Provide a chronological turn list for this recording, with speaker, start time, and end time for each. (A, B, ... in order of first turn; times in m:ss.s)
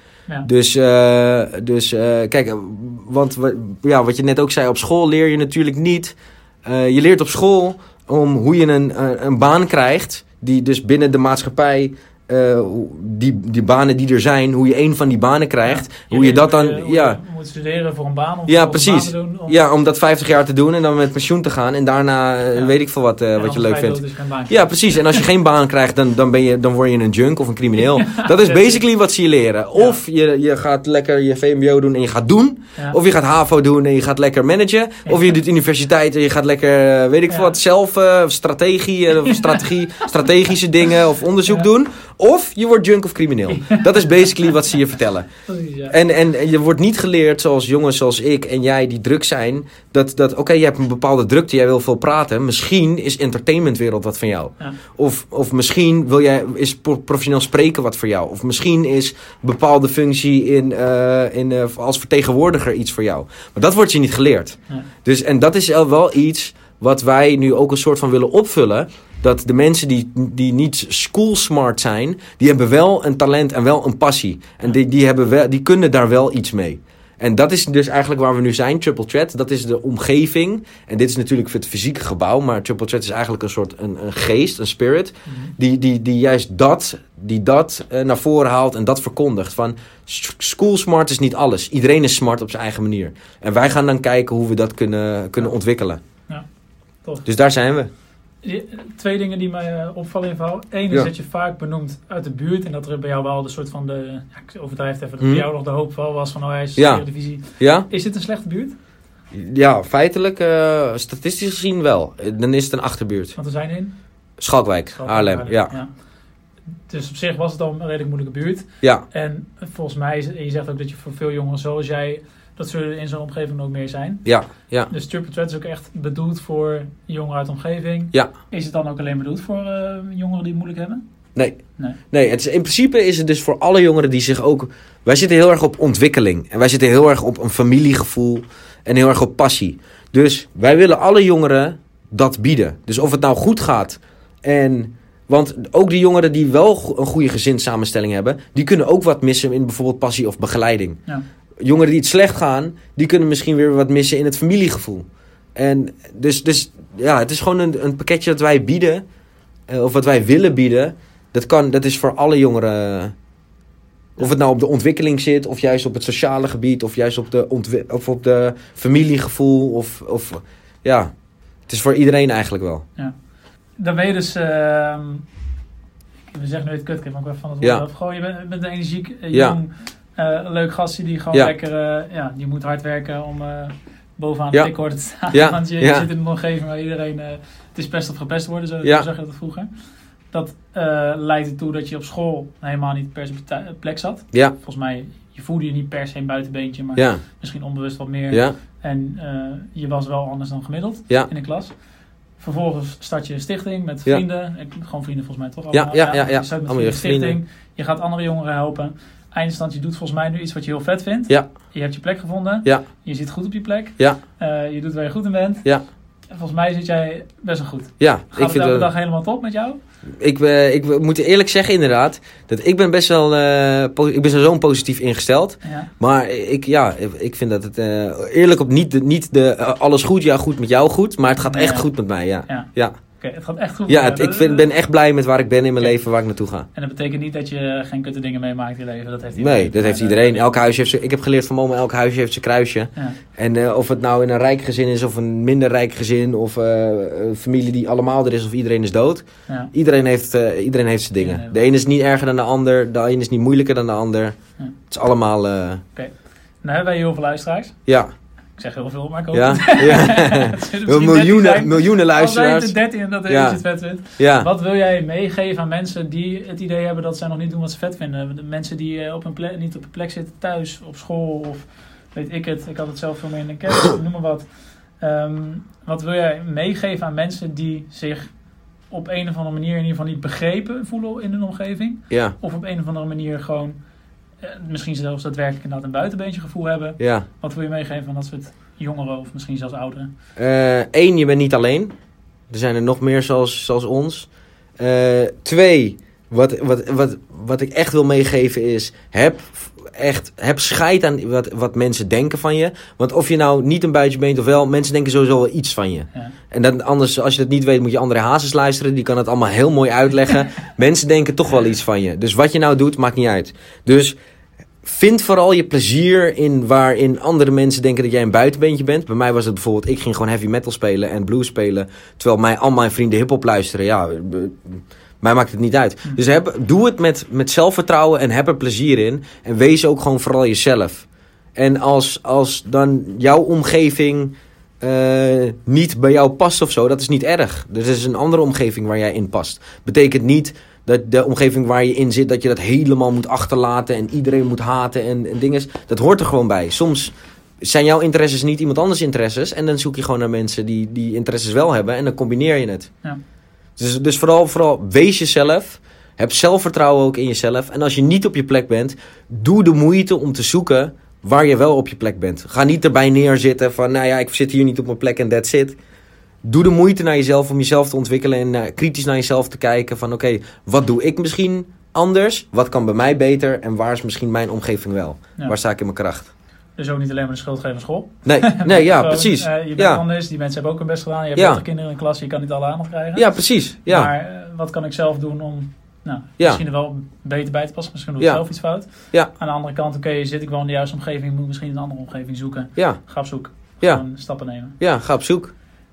0:00.4-0:17.2 A
0:15.6-0:19.6 B
0:18.5-0:45.3 A
0:23.4-0:25.3 B
0:27.8-0:28.8 B
0:37.3-0:37.6 B
0:39.3-0:39.7 B
0:43.5-0:44.4 B
0:45.5-0:46.0 B
0:45.9-1:36.0 A
1:25.3-1:25.5 B
1:37.2-1:37.9 A
1:38.4-1:48.8 B
1:45.2-1:45.5 A
1:46.8-1:47.9 A
1:49.3-1:53.4 A
1:53.4-1:54.0 B
1:54.4-1:55.7 A
1:55.0-1:55.9 B
1:56.9-2:04.3 B
2:04.2-2:04.9 A
2:04.9-2:11.0 B
2:11.4-2:31.0 A
2:31.6-2:39.0 A
2:39.7-2:43.1 A
2:44.2-2:51.1 A
2:51.7-2:52.8 A
2:53.8-2:55.3 B
2:56.3-3:09.7 B
2:59.3-2:59.6 A
3:04.5-3:06.1 A
3:08.8-3:09.1 A
3:10.3-3:21.8 B
3:17.0-3:17.2 A
3:18.3-3:18.6 A
3:22.4-3:35.7 B
3:25.7-3:27.4 A
3:36.3-3:39.8 B
3:38.0-3:38.9 A
3:40.2-3:53.0 A
3:45.6-3:45.9 B
3:51.4-3:51.9 B
3:52.5-3:54.7 B
3:53.9-3:56.7 A
3:56.7-4:00.6 B
3:59.4-4:14.4 A
4:11.2-4:11.6 B
4:14.9-4:15.8 A
4:15.9-4:17.8 B
4:17.9-4:18.2 A
4:18.6-4:38.3 B
4:19.3-4:23.6 A
4:24.2-4:24.5 A
4:38.9-4:43.8 B
4:42.1-4:42.4 A
4:44.4-4:50.1 B
4:47.0-4:47.3 A
4:50.4-4:52.0 A
4:52.5-5:14.2 A
5:14.8-5:52.9 A
5:53.8-6:05.8 A
6:06.4-6:16.3 A
6:16.8-6:23.3 B
6:18.2-6:20.0 A
6:21.4-6:21.6 A
6:23.2-6:24.1 A
6:23.8-6:34.8 B
6:28.2-6:29.3 A
6:32.8-6:33.0 A
6:33.8-6:34.0 A
6:34.8-6:35.5 A